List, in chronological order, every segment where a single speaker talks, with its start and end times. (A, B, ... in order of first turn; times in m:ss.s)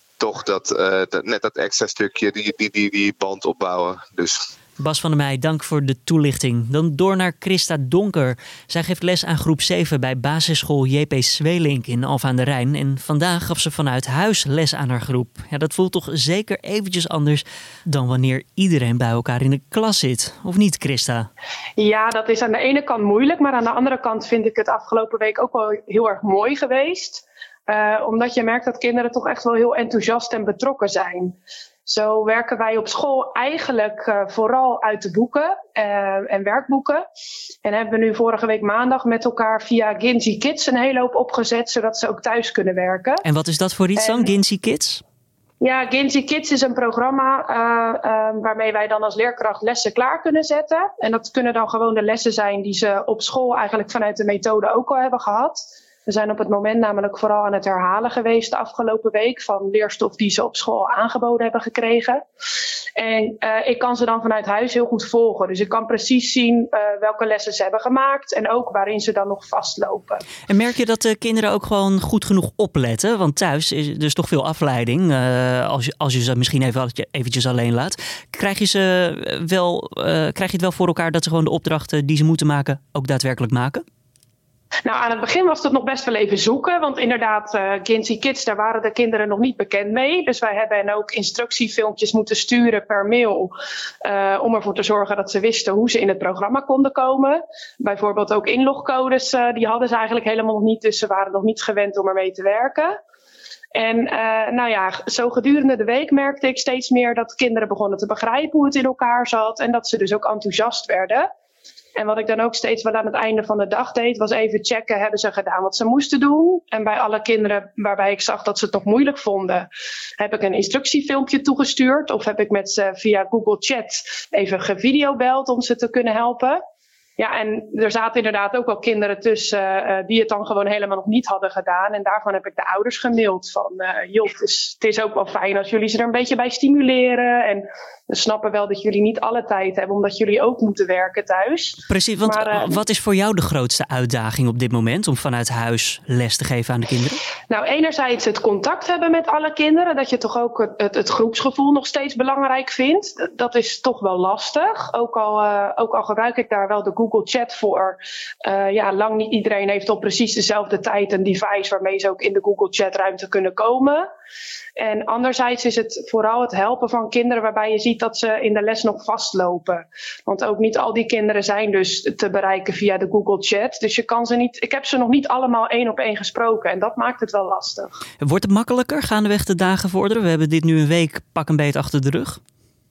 0:00.2-0:04.5 A
0:04.8-0:21.3 B
0:21.8-0:37.0 C
0:37.6-0:43.2 C
0:43.2-0:45.0 B
0:44.0-0:44.3 C
0:45.6-1:02.2 C
1:03.0-1:10.2 C
1:10.5-1:23.8 B
1:24.8-1:33.5 C
1:34.0-1:43.0 C
1:43.7-1:51.3 C
1:52.0-2:06.6 C
2:07.2-2:22.8 C
2:21.9-2:27.2 B
2:27.5-2:44.1 C
2:44.8-2:58.0 C
2:58.2-3:02.4 B